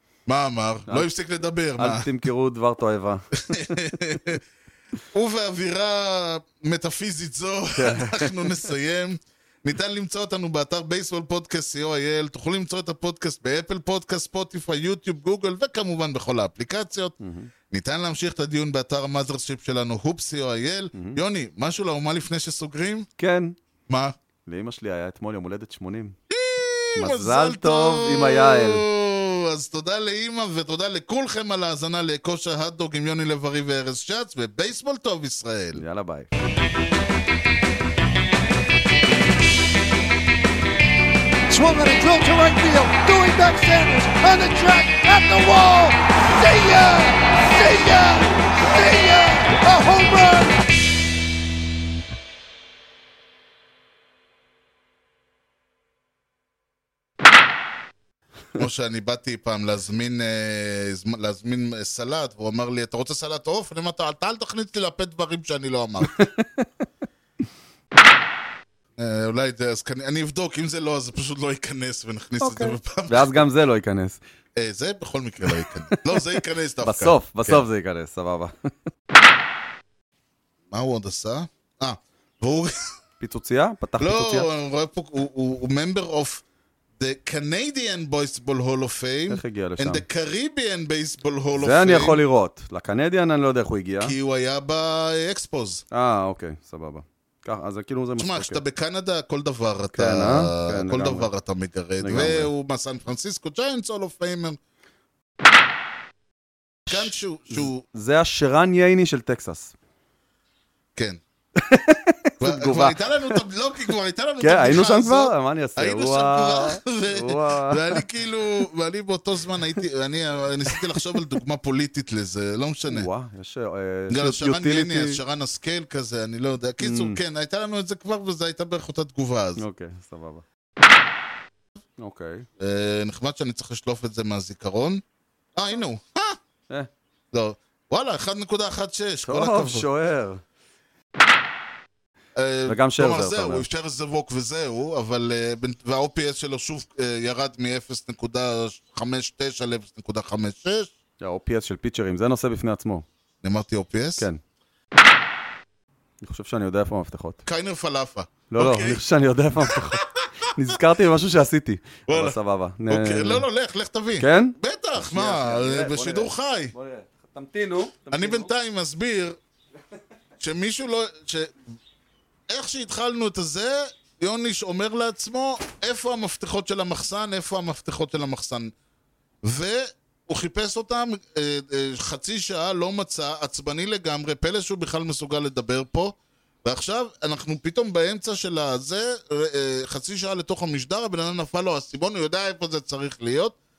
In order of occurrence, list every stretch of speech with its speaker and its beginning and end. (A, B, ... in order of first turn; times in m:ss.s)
0:00.3-0:02.1 A
0:01.8-0:03.8 B
0:03.4-0:04.4 A
0:05.1-0:17.2 A
0:07.8-0:08.7 B
0:17.2-0:17.5 B
0:17.7-0:23.1 A
0:20.9-0:21.2 B
0:23.2-0:23.6 B
0:23.9-0:24.2 A
0:24.5-0:26.2 B
0:26.3-0:35.8 A
0:27.0-0:28.8 B
0:35.8-0:36.3 B
0:41.5-0:50.6 C
0:58.6-1:06.2 A
1:06.0-1:06.7 B
1:09.0-1:13.4 A
1:12.4-1:14.2 B
1:14.6-1:17.6 A
1:15.4-1:18.7 B
1:20.7-1:22.9 A
1:23.2-1:24.5 B
1:24.0-1:26.4 A
1:27.0-1:32.2 A
1:29.3-1:30.0 B
1:31.6-1:34.1 B
1:34.0-1:35.8 A
1:35.9-1:38.6 B
1:38.2-1:44.6 A
1:39.9-1:41.3 B
1:42.0-1:42.5 B
1:46.9-1:49.7 B
1:46.9-1:47.8 A
1:51.6-1:53.4 B
1:52.4-2:03.1 A
1:54.4-1:58.0 B
2:00.7-2:01.2 B
2:02.9-2:05.2 B
2:04.1-2:09.6 A
2:06.8-2:07.2 B
2:09.6-2:10.4 B
2:12.0-2:12.5 B
2:12.6-2:15.0 A
2:15.6-2:16.4 A
2:17.3-2:19.9 A
2:19.2-2:20.4 B
2:22.4-2:30.9 A
2:22.7-2:23.7 B
2:31.2-2:33.0 B
2:33.4-2:34.3 A
2:36.2-2:37.4 B
2:37.5-2:39.0 A
2:38.5-2:43.5 B
2:39.6-2:40.3 A
2:42.1-2:42.4 A
2:42.9-2:46.7 A
2:44.2-2:48.5 B
2:48.1-2:49.4 A
2:50.4-2:51.6 A
2:52.5-2:58.7 A
2:59.4-3:13.6 A